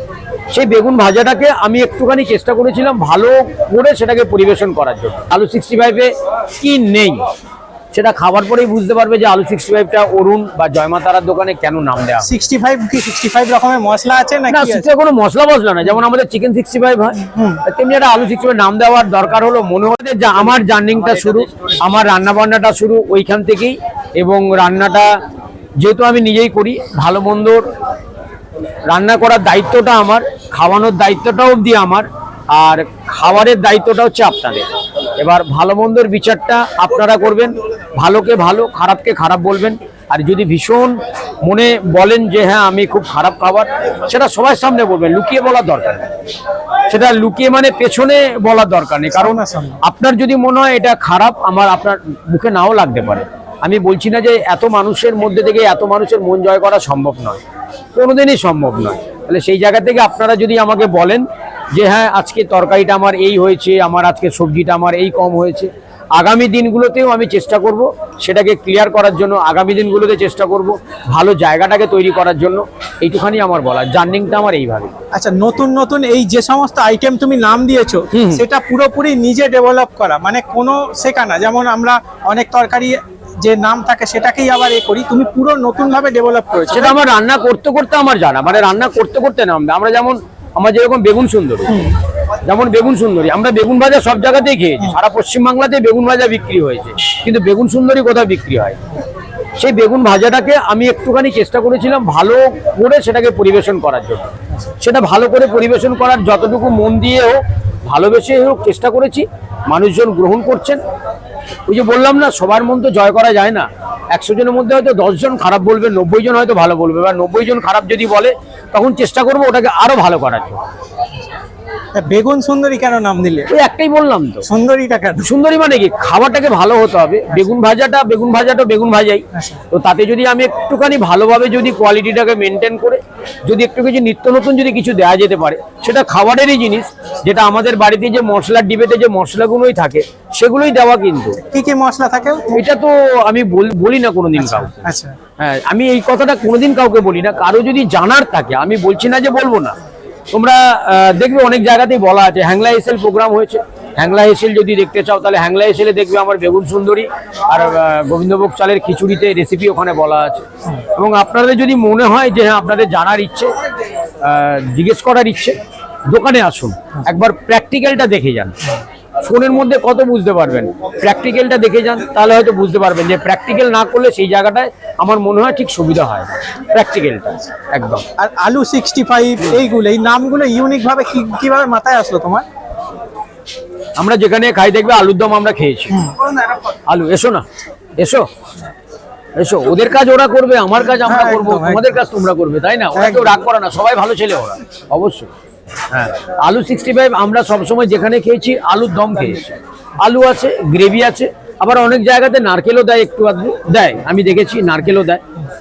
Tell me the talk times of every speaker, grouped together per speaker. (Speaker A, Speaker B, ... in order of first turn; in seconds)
Speaker A: 0.5-7.2, 7.9-12.3, 14.5-25.1, 25.8-27.6, 28.9-46.1, 46.9-57.4, 57.9-75.0, 78.1-78.4, 86.7-91.9, 92.5-98.8, 99.6-110.8, 111.7-120.6, 123.5-124.5, 125.2-141.4, 142.5-144.8, 145.4-149.8, 150.3-163.5, 164.2-165.6, 166.1-178.1, 184.0-186.0, 186.9-187.5, 188.0-188.3, 189.4-195.3, 195.9-205.2
Speaker B: 12.2-14.9, 17.2-17.6, 49.1-49.8, 75.1-87.0, 91.7-92.0, 122.0-123.5, 124.5-125.3, 129.3-129.6, 141.4-142.7, 144.4-145.2, 178.2-182.5, 190.9-192.0, 192.9-193.4